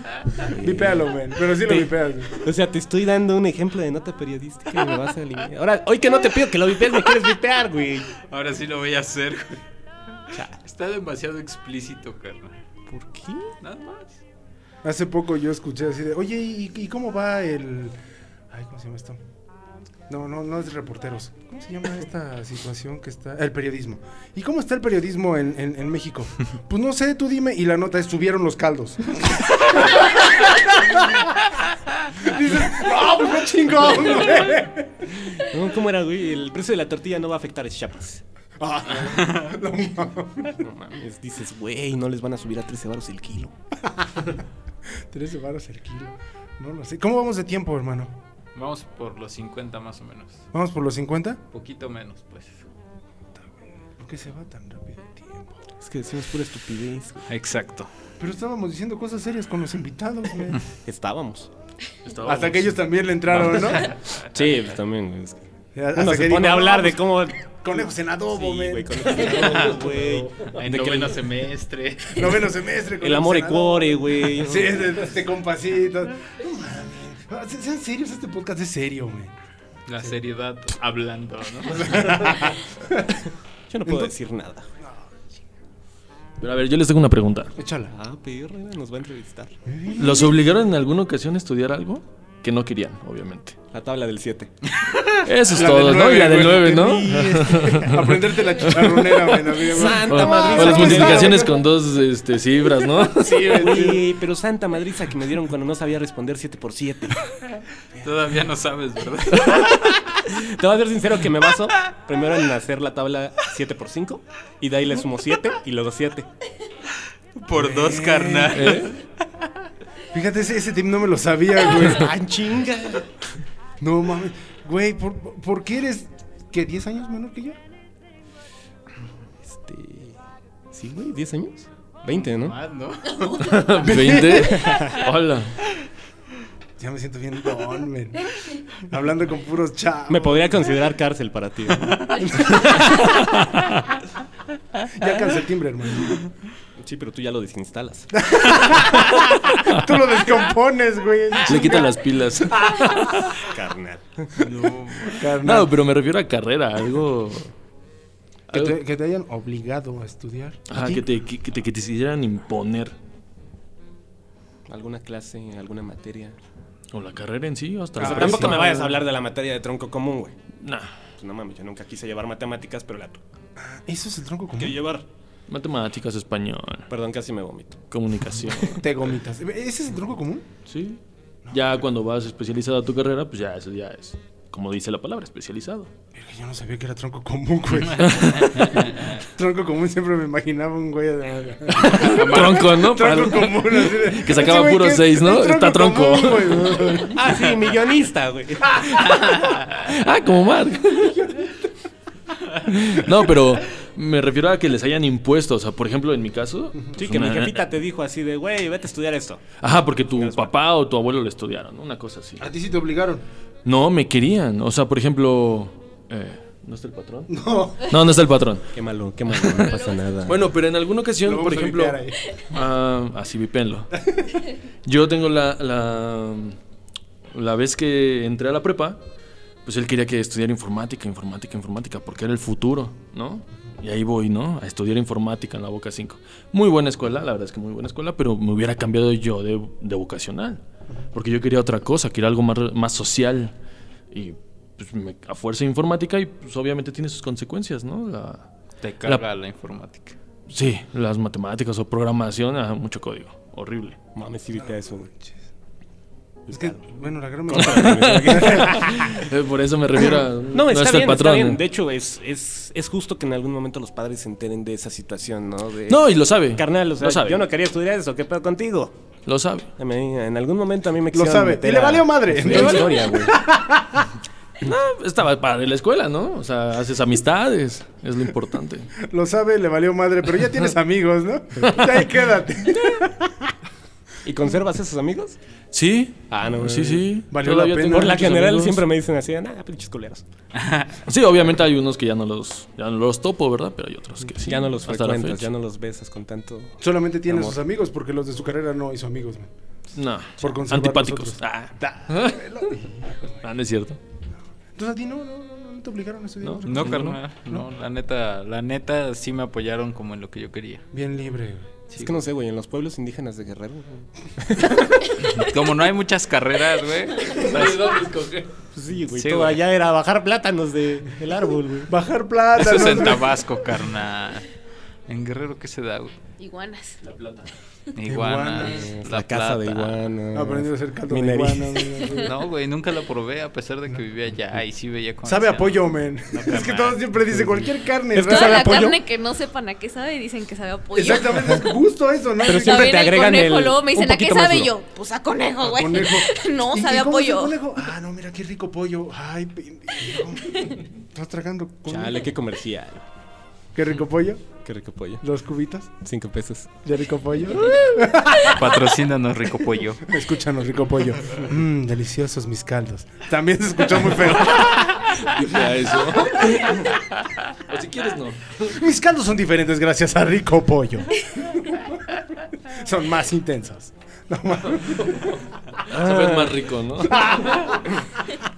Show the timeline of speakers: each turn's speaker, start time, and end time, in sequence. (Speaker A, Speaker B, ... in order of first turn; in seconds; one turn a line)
Speaker A: 0.4-1.1
Speaker B: 0.5-2.4
Speaker A: 1.6-8.1
Speaker C: 8.2-9.6
Speaker A: 10.3-10.6
Speaker C: 10.6-12.5
Speaker A: 12.9-13.5
Speaker C: 13.6-14.2
Speaker B: 14.8-17.9
Speaker B: 18.5-19.2
Speaker B: 20.1-31.3
Speaker B: 32.1-35.3
Speaker A: 35.2-38.2
Speaker B: 38.6-40.6
Speaker C: 39.0-39.4
Speaker A: 40.6-43.5
Speaker B: 43.9-44.4
Speaker B: 45.0-48.1
Speaker C: 48.5-50.5
Speaker B: 50.5-51.4
Speaker C: 51.5-52.6
Speaker B: 54.0-55.5
Speaker A: 55.8-57.3
Speaker C: 57.3-57.9
Speaker B: 58.2-60.6
Speaker A: 60.8-61.5
Speaker D: 62.0-62.7
Speaker B: 62.2-64.0
Speaker A: 64.3-65.4
Speaker B: 65.7-70.2
Speaker A: 65.9-71.2
Speaker C: 70.5-72.4
Speaker B: 72.1-79.3
Speaker A: 73.0-75.0
Speaker C: 79.9-82.4
Speaker B: 81.8-83.2
Speaker A: 83.7-84.7
Speaker B: 83.9-84.1
Speaker D: 86.4-87.5
Speaker B: 87.5-87.9
Speaker A: 87.9-89.5
Speaker B: 89.7-90.3
Speaker D: 90.0-93.6
Speaker A: 93.7-94.5
Speaker D: 95.2-99.2
Speaker B: 95.5-101.6
Speaker A: 96.8-97.8
Speaker A: 99.6-101.5
Speaker D: 100.0-103.7
Speaker B: 103.2-104.1
Speaker A: 103.4-107.2
Speaker C: 108.0-110.1
Speaker A: 109.5-116.3
Speaker C: 117.3-119.0
Speaker B: 117.5-118.8
Speaker D: 118.5-118.9
Speaker B: 120.1-122.1
Speaker A: 121.8-123.2
Speaker B: 123.8-127.6
Speaker A: 129.4-130.2
Speaker A: 130.7-132.6
Speaker C: 132.0-133.6
Speaker D: 133.4-135.6
Speaker B: 133.8-135.0
Speaker B: 136.8-140.7
Speaker A: 140.1-142.6
Speaker B: 142.1-143.2
Speaker D: 143.0-143.9
Speaker B: 144.9-146.2
Speaker A: 146.8-148.1
Speaker B: 148.2-153.4
Speaker D: 151.4-153.2
Speaker A: 153.4-154.5
Speaker C: 154.4-155.2
Speaker B: 154.9-155.7
Speaker D: 155.4-157.5
Speaker B: 158.5-161.0
Speaker D: 158.5-158.8
Speaker D: 160.7-162.9
Speaker A: 164.7-166.4
Speaker D: 166.9-168.8
Speaker A: 168.0-170.4
Speaker B: 168.0-168.8
Speaker D: 170.6-170.9
Speaker A: 171.2-173.2
Speaker B: 173.6-174.8
Speaker A: 174.6-175.0
Speaker D: 175.5-176.9
Speaker A: 176.9-177.8
Speaker D: 177.9-178.9
Speaker B: 178.8-180.5
Speaker D: 180.7-181.0
Speaker B: 181.4-181.8
Speaker D: 181.5-185.9
Speaker B: 186.1-197.6
Speaker C: 188.2-189.1
Speaker D: 191.8-197.0
Speaker C: 192.0-192.6
Speaker A: 197.1-199.3
Speaker B: 198.7-199.3
Speaker D: 199.4-201.3
Speaker D: 202.6-207.6
Speaker A: 207.0-209.4
Speaker D: 209.6-212.4
Speaker A: 210.1-210.5
Speaker B: 212.4-213.2
Speaker D: 213.6-217.3
Speaker B: 217.3-217.9
Speaker D: 217.8-218.7
Speaker A: 218.7-220.4
Speaker D: 220.2-223.9
Speaker B: 221.2-222.4
Speaker D: 224.8-226.6
Speaker D: 227.3-229.0
Speaker D: 229.6-240.6
Speaker D: 241.1-243.5
Speaker D: 244.1-248.5
Speaker C: 248.8-250.2
Speaker D: 250.5-254.0
Speaker A: 254.1-255.1
Speaker B: 256.5-259.2
Speaker A: 257.5-259.2
Speaker D: 257.6-261.6
Speaker A: 260.5-266.0
Speaker D: 265.9-267.4
Speaker A: 266.5-269.0
Speaker D: 269.2-269.7
Speaker A: 269.8-273.4
Speaker B: 271.1-274.1
Speaker D: 274.6-278.9
Speaker B: 279.0-283.5
Speaker A: 284.2-285.4
Speaker D: 285.7-288.8
Speaker A: 286.3-287.1
Speaker B: 287.3-288.4
Speaker A: 287.9-290.2
Speaker C: 290.6-290.9
Speaker D: 291.0-295.4
Speaker A: 294.3-297.6
Speaker B: 296.8-299.5
Speaker D: 299.9-302.4
Speaker B: 300.4-303.4
Speaker D: 303.4-304.0
Speaker B: 304.7-307.6
Speaker D: 306.4-307.0
Speaker C: 306.6-310.9
Speaker B: 310.9-311.8
Speaker C: 311.9-312.2
Speaker A: 311.9-315.0
Speaker C: 315.1-318.0
Speaker D: 317.3-318.5
Speaker A: 318.7-321.9
Speaker C: 319.1-319.6
Speaker B: 321.9-323.4
Speaker C: 322.5-324.5
Speaker C: 325.1-326.1
Speaker E: 326.4-327.0
Speaker D: 327.0-327.5
Speaker C: 327.9-330.0
Speaker B: 328.1-328.9
Speaker A: 328.6-332.0
Speaker B: 330.3-332.4
Speaker C: 332.2-337.0
Speaker B: 335.2-338.9
Speaker A: 337.3-339.0
Speaker E: 338.2-341.8
Speaker B: 340.9-343.1
Speaker E: 342.4-347.6
Speaker A: 342.4-344.7
Speaker B: 345.6-352.2
Speaker A: 351.9-353.1
Speaker B: 353.7-354.4
Speaker A: 354.6-355.2
Speaker B: 355.2-356.0
Speaker A: 356.0-356.8
Speaker B: 356.8-358.9
Speaker C: 358.4-360.0
Speaker B: 360.0-365.3
Speaker D: 364.6-366.8
Speaker B: 366.4-366.8
Speaker D: 367.7-368.7
Speaker B: 368.6-375.4
Speaker D: 375.9-377.6
Speaker A: 375.9-376.6
Speaker B: 377.0-378.4